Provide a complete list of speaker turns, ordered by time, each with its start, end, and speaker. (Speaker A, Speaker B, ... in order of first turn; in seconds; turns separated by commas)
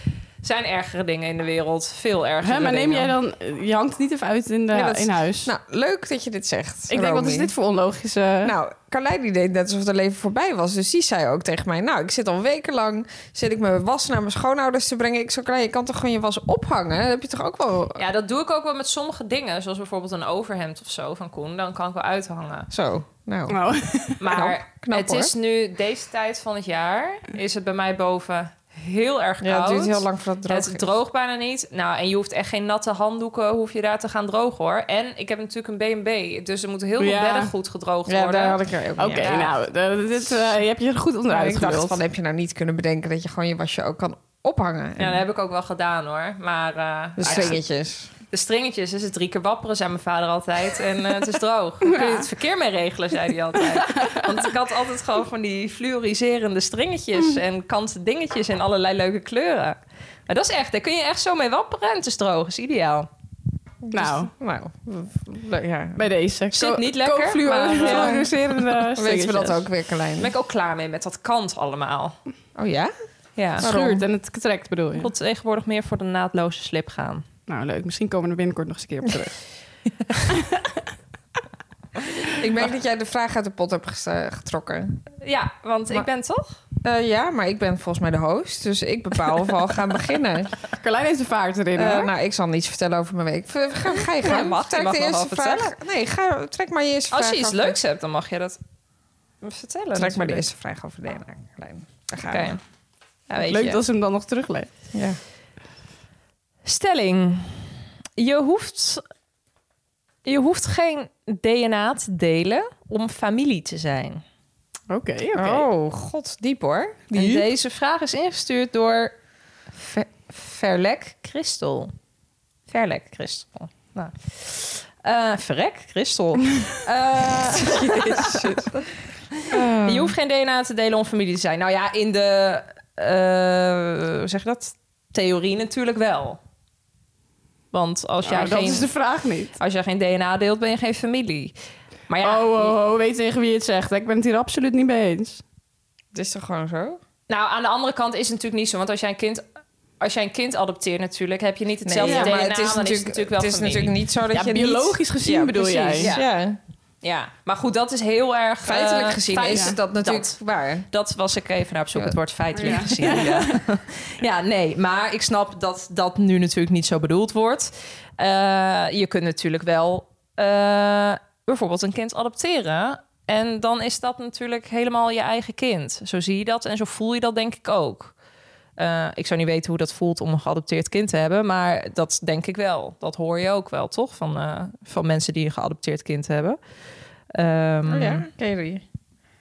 Speaker A: 0.4-3.1, Speaker B: 2.4-5.5, Speaker C: 4.7-7.5, Speaker B: 6.9-8.5, Speaker C: 8.4-18.0, Speaker A: 18.0-22.7, Speaker C: 22.7-23.6, Speaker B: 23.5-24.2, Speaker A: 24.2-39.5, Speaker C: 24.3-25.3, Speaker C: 29.4-30.9, Speaker B: 37.0-37.5, Speaker C: 38.0-39.4, Speaker B: 39.0-42.0, Speaker C: 41.3-45.2, Speaker A: 45.0-47.5, Speaker C: 47.2-48.1, Speaker A: 48.3-59.8, Speaker B: 51.8-52.2, Speaker B: 53.9-54.2, Speaker A: 60.3-63.1, Speaker C: 63.8-66.0, Speaker B: 63.9-64.3, Speaker B: 66.0-69.7, Speaker A: 66.5-68.3, Speaker C: 67.8-68.3, Speaker C: 69.0-70.3, Speaker A: 70.2-72.1, Speaker C: 72.5-72.9, Speaker A: 73.4-73.6, Speaker C: 73.6-74.0, Speaker B: 73.6-75.1, Speaker A: 75.0-77.2, Speaker B: 77.5-79.3, Speaker C: 82.4-85.0, Speaker A: 85.2-86.6, Speaker C: 86.8-90.5, Speaker B: 90.8-92.1, Speaker C: 91.7-97.8, Speaker A: 94.2-95.7, Speaker A: 97.1-98.6, Speaker A: 99.4-100.5, Speaker C: 99.9-102.6, Speaker A: 102.3-102.6, Speaker A: 103.3-103.8, Speaker B: 103.4-104.7, Speaker C: 104.9-105.2, Speaker A: 106.6-109.0, Speaker A: 110.2-114.2, Speaker B: 114.9-115.7, Speaker C: 115.3-117.5, Speaker A: 117.1-119.1, Speaker A: 119.8-121.9, Speaker A: 122.7-128.6, Speaker C: 127.5-128.8, Speaker C: 129.5-130.1, Speaker A: 129.8-136.4, Speaker A: 137.7-138.9, Speaker B: 138.2-139.5, Speaker A: 139.6-141.5, Speaker A: 142.1-142.7, Speaker B: 142.2-145.4, Speaker C: 146.1-147.0, Speaker A: 147.3-149.4, Speaker A: 150.0-153.9, Speaker C: 151.8-156.6, Speaker B: 152.0-152.3, Speaker B: 154.3-156.1, Speaker A: 156.0-156.3, Speaker A: 157.0-160.4, Speaker C: 158.6-160.9, Speaker A: 160.9-178.1, Speaker C: 161.9-163.2, Speaker B: 162.6-163.6, Speaker A: 178.8-186.6, Speaker A: 187.3-188.2, Speaker C: 187.9-188.8